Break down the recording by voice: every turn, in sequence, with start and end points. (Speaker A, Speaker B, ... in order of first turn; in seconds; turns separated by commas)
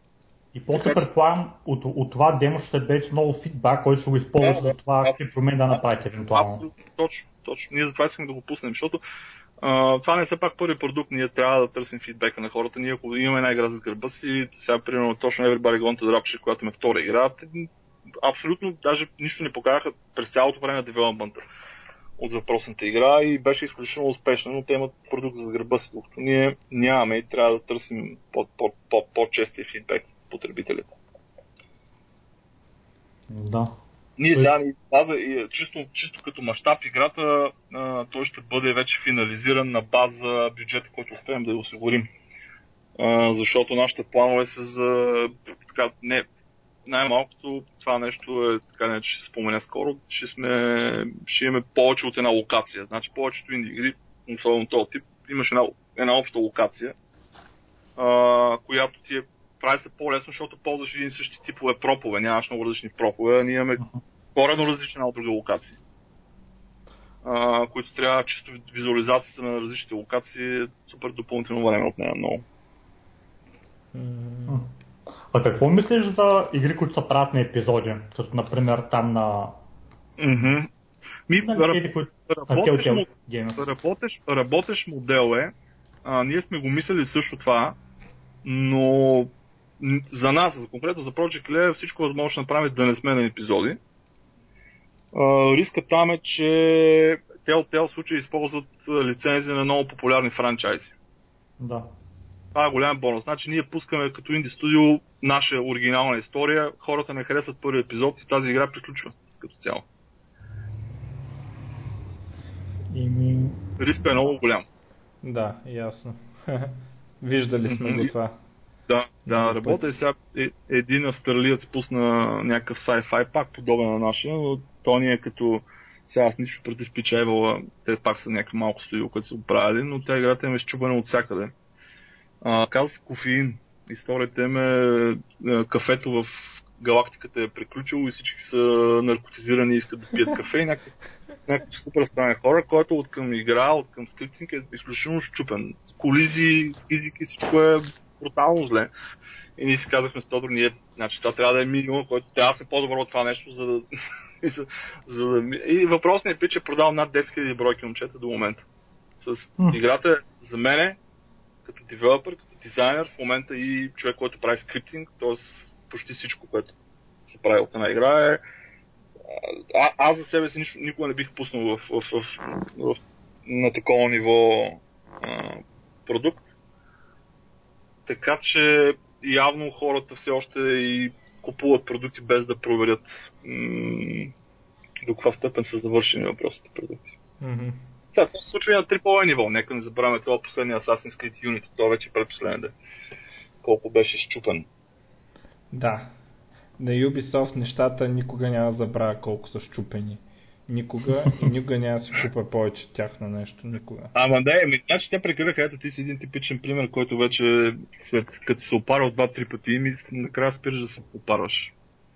Speaker A: 0.5-6.7, Speaker B: 0.7-1.0, Speaker B: 4.4-5.8, Speaker B: 6.3-9.0, Speaker B: 9.6-17.7, Speaker B: 18.2-21.4, Speaker B: 22.2-30.9, Speaker A: 33.3-33.7, Speaker B: 34.2-42.1, Speaker B: 43.0-46.3, Speaker B: 46.9-57.0, Speaker B: 58.0-63.8, Speaker B: 64.3-65.8, Speaker B: 67.2-72.4, Speaker C: 73.9-74.6, Speaker A: 75.3-79.6, Speaker B: 80.2-80.7, Speaker B: 81.3-85.5, Speaker A: 81.4-83.7, Speaker B: 86.0-87.8, Speaker B: 88.4-93.8, Speaker B: 95.1-101.0, Speaker A: 101.6-101.9, Speaker B: 102.5-109.8, Speaker C: 112.9-113.5, Speaker B: 113.8-114.7, Speaker C: 115.2-118.3, Speaker B: 117.7-118.1, Speaker B: 118.9-131.5, Speaker C: 119.3-119.8, Speaker B: 132.4-140.9, Speaker B: 141.5-148.9, Speaker B: 149.6-153.9, Speaker B: 154.4-158.7, Speaker B: 159.2-161.0, Speaker B: 161.7-168.4, Speaker B: 169.3-176.4, Speaker B: 178.1-184.3, Speaker B: 185.1-187.1, Speaker C: 187.4-187.8, Speaker B: 188.2-192.7, Speaker B: 193.6-194.7, Speaker C: 195.7-196.1, Speaker C: 196.8-204.1, Speaker B: 204.2-211.7